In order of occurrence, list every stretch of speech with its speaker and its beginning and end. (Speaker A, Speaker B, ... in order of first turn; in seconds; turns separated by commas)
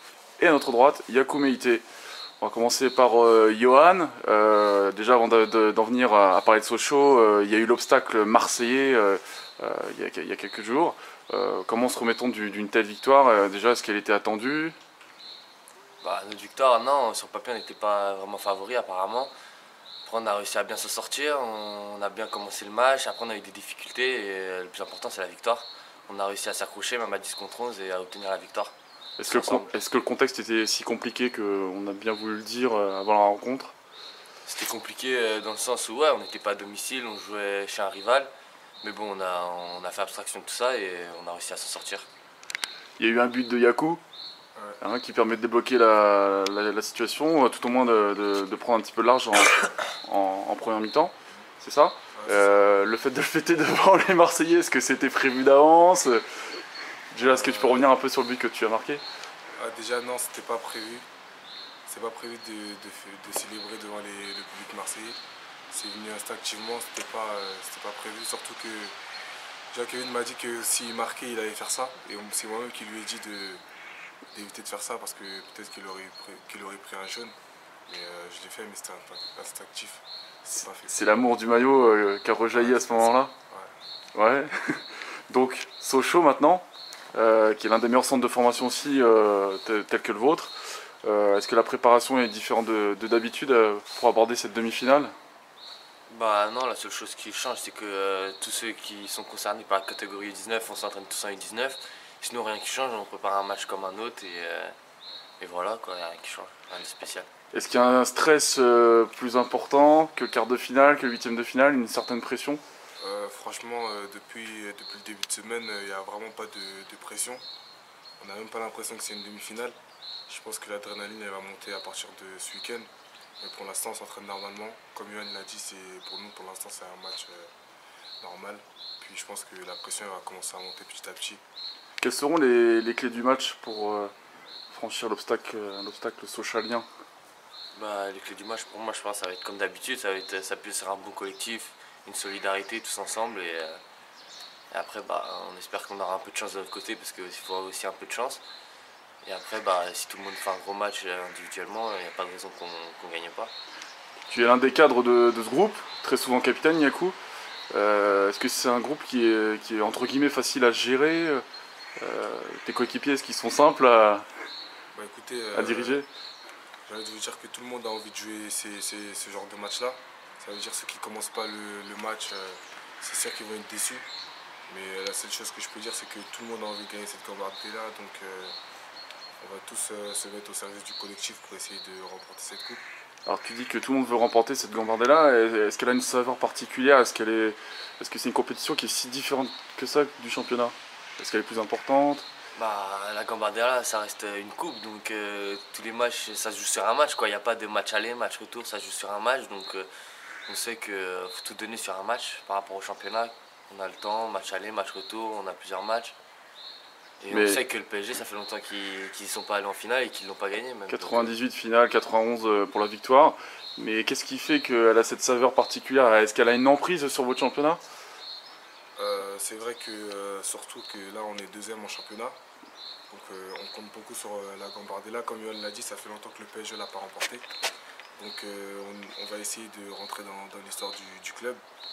Speaker A: 0.4-1.8, Speaker A: 2.4-14.8, Speaker B: 16.0-19.3, Speaker B: 20.0-29.7, Speaker A: 29.2-33.7, Speaker B: 34.4-38.3, Speaker B: 38.8-42.1, Speaker A: 43.0-44.0, Speaker C: 44.5-44.8, Speaker A: 44.8-56.2, Speaker C: 52.1-52.6, Speaker A: 57.1-59.0, Speaker C: 57.2-57.9, Speaker C: 59.6-61.0, Speaker C: 61.9-65.2, Speaker C: 65.7-68.9, Speaker C: 69.7-73.6, Speaker C: 74.3-77.3, Speaker C: 77.9-81.1, Speaker A: 80.8-83.3, Speaker C: 82.5-83.7, Speaker A: 84.1-95.1, Speaker B: 96.1-104.7, Speaker B: 105.4-107.3, Speaker A: 107.5-112.6, Speaker C: 113.0-117.4, Speaker C: 118.2-119.8, Speaker C: 120.3-122.9, Speaker C: 123.4-127.5, Speaker C: 128.2-131.4, Speaker A: 132.0-134.1, Speaker A: 134.7-136.8, Speaker B: 137.7-143.8, Speaker B: 144.7-148.4, Speaker B: 149.2-153.5, Speaker A: 154.2-157.2, Speaker A: 157.7-161.4, Speaker A: 162.0-164.2, Speaker C: 164.9-166.0, Speaker A: 165.5-166.1, Speaker C: 166.9-174.0, Speaker C: 174.7-178.5, Speaker C: 179.4-182.8, Speaker A: 183.2-192.2, Speaker B: 192.5-199.9, Speaker B: 200.5-206.1, Speaker B: 207.2-211.3, Speaker A: 207.3-207.6, Speaker A: 210.9-217.8, Speaker C: 219.0-222.4, Speaker C: 223.1-227.5, Speaker C: 228.2-231.6